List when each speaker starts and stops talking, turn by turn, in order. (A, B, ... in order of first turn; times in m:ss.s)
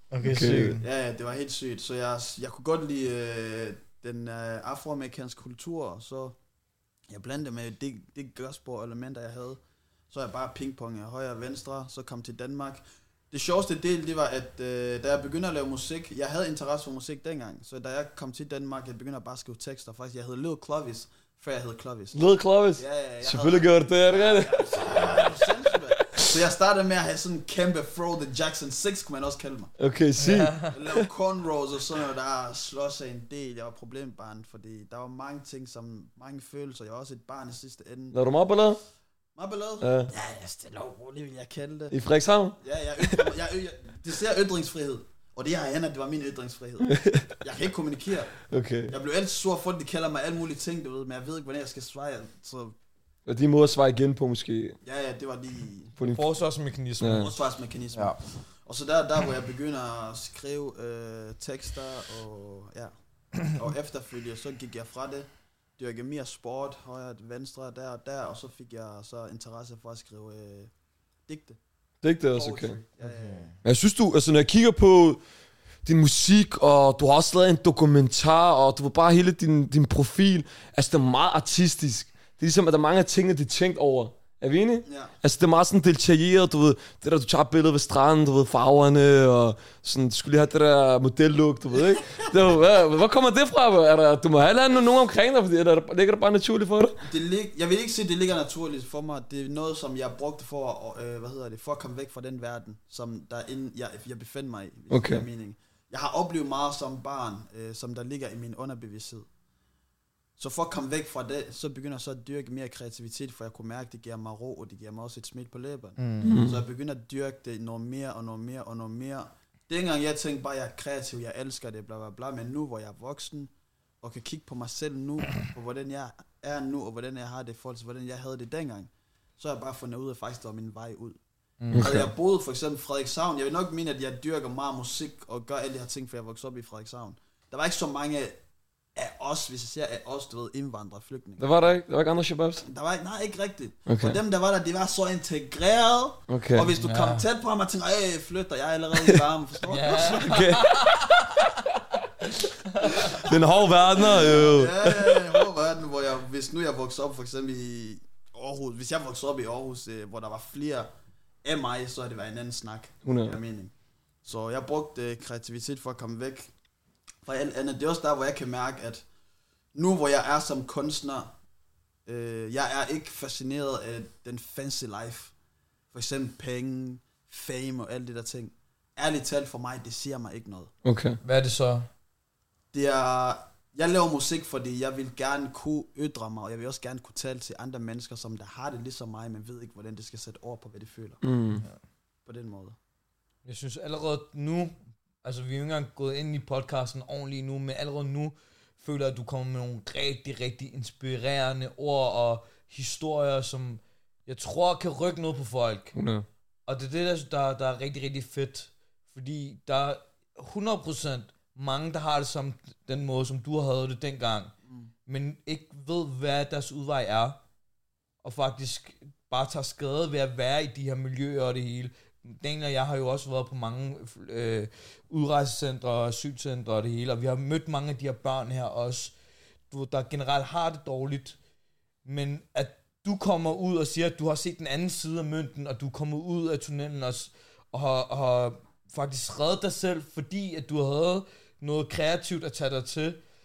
0:00.1-0:00.8 A
0:00.2-0:00.8 B
0:00.8-0:06.4 C
0:07.1-0:09.6 C
0:10.1-0:29.7 C
0:22.1-0:25.5 B
0:29.8-0:31.0 B
0:30.2-0:30.7 A
0:30.7-0:38.2 C
0:38.1-0:38.8 B
0:39.4-0:42.0 C
0:39.8-0:40.1 B
0:41.9-0:43.3 B
0:42.6-0:48.3 C
0:46.8-0:47.3 B
0:48.5-0:48.9 B
0:48.9-0:52.7 C
0:53.2-0:54.8 B
0:54.8-0:55.9 C
0:56.0-0:56.2 B
0:56.0-0:57.3 A
0:57.0-0:57.3 B
0:57.1-1:02.9 C
1:03.4-1:10.7 C
1:11.3-1:11.6 C
1:12.0-1:12.8 B
1:12.3-1:13.5 C
1:13.0-1:13.6 A
1:13.6-1:15.2 B
1:15.8-1:37.0 B
1:24.8-1:25.1 C
1:37.0-1:49.3 C
1:44.9-1:45.2 B
1:50.4-2:03.5 C
1:56.0-1:56.3 A
1:56.2-1:56.6 B
2:04.0-2:11.2 C
2:11.6-2:11.9 A
2:11.7-2:12.1 B
2:11.7-2:18.4 C
2:18.9-2:21.5 C
2:21.4-2:22.6 B
2:22.6-2:30.5 C
2:23.9-2:24.2 B
2:26.3-2:26.7 B
2:26.8-2:27.2 A
2:29.6-2:31.5 A
2:30.2-2:30.7 B
2:32.8-2:33.2 A
2:33.0-2:35.4 B
2:33.9-2:40.9 C
2:34.1-2:34.4 A
2:41.4-2:43.7 C
2:43.0-2:43.4 B
2:44.2-2:46.5 C
2:47.2-2:49.0 C
2:49.7-2:51.3 C
2:52.0-2:55.3 C
2:55.9-3:00.7 C
3:00.8-3:01.2 B
3:01.2-3:01.9 A
3:02.7-3:11.2 C
3:11.2-3:11.6 B
3:12.2-3:12.8 C
3:13.4-3:25.9 A
3:25.9-3:26.2 B
3:26.7-3:34.5 A
3:35.1-3:37.4 A
3:38.2-3:49.1 A
3:49.7-3:51.4 A
3:52.0-4:03.2 A